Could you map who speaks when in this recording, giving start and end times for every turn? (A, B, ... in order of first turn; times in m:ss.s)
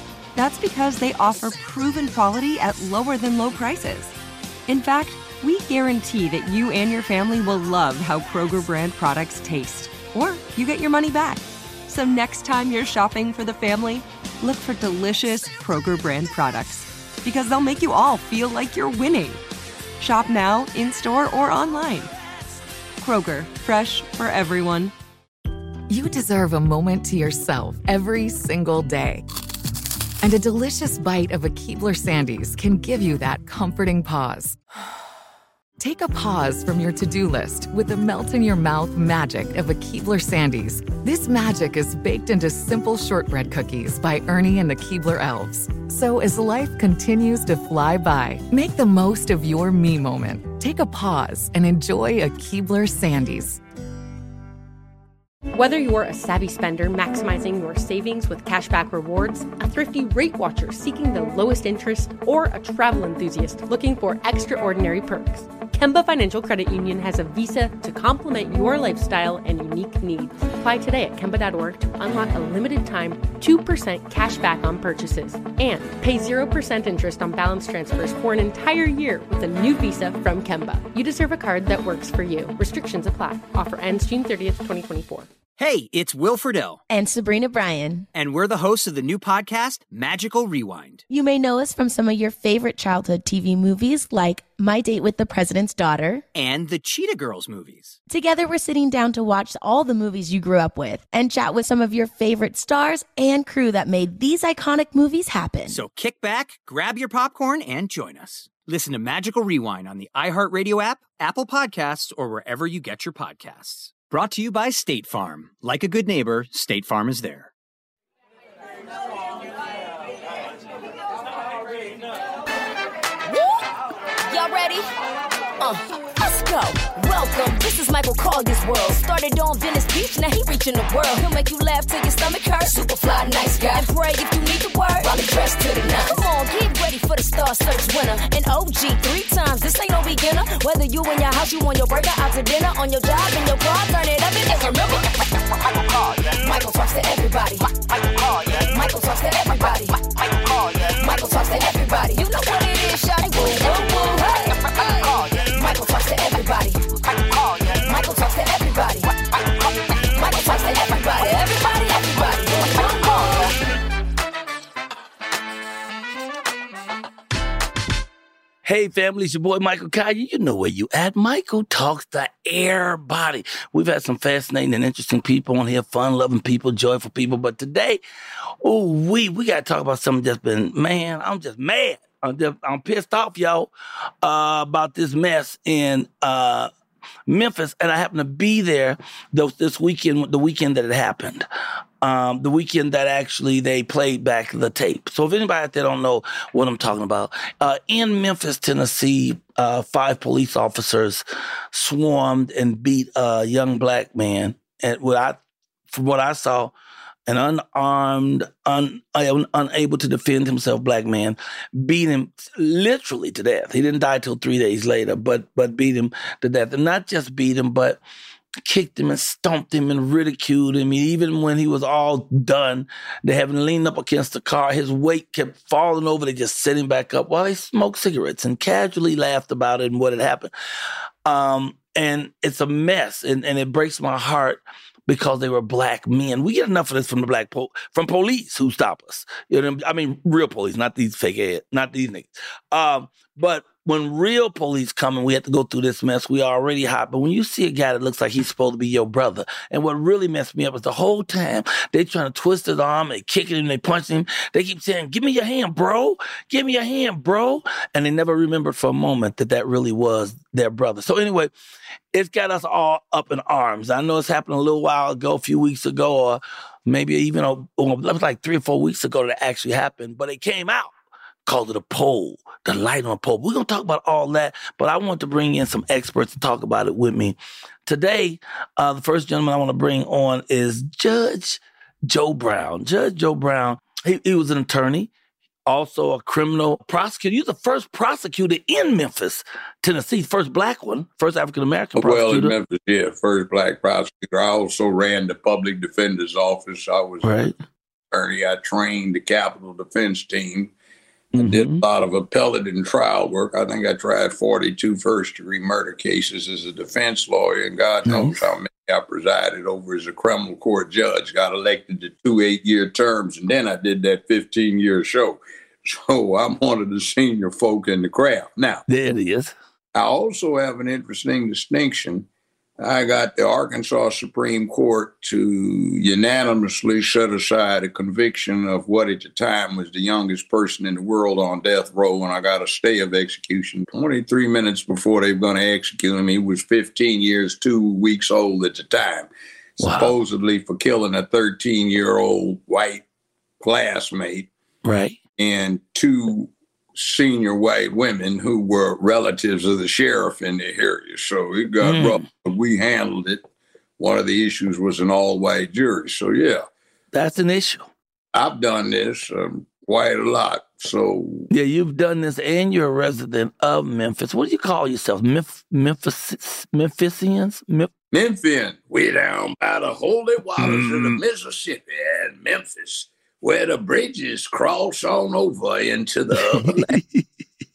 0:00.3-0:04.1 A
0:04.7-0:19.4 A
0:20.0-0:22.1 A
0:23.0-0:24.9 A
0:25.9-0:29.2 B
0:30.2-0:34.6 B
0:35.8-0:53.6 B
0:55.5-1:25.3 C
1:25.6-1:26.8 D
1:26.9-1:28.1 E
1:28.1-1:31.0 D
1:31.1-1:36.2 E
1:36.3-1:37.9 D
1:38.1-1:45.8 E
1:45.7-1:57.5 D
2:03.3-2:03.6 F
2:04.3-2:04.9 F
2:05.6-2:43.5 F
2:48.6-2:58.0 G
2:58.6-3:03.7 G
3:04.2-3:06.7 G
3:07.3-3:11.5 G
3:12.0-3:25.4 G
3:25.9-3:26.7 G
3:27.3-3:38.0 G
3:38.6-3:50.5 G
3:51.2-4:21.5 G
4:22.1-4:30.9 G
4:31.5-4:45.1 G
4:45.7-4:52.5 G
4:52.0-4:57.5 H
4:57.2-4:57.5 G
4:58.1-5:00.7 H
5:01.3-5:01.8 G
5:01.4-5:18.8 H
5:08.0-5:08.4 G
5:18.9-5:19.5 G
5:19.9-5:22.3 H
5:22.8-5:43.0 H
5:39.8-5:40.1 G
5:43.6-5:44.5 H
5:44.8-5:45.2 G
5:45.4-5:53.4 H
5:51.8-5:52.2 G
5:54.0-5:56.6 H
5:57.1-5:57.9 G
5:58.3-6:01.5 H
6:01.5-6:07.9 G
6:08.1-6:17.0 H
6:10.6-6:11.2 G
6:16.3-6:17.2 G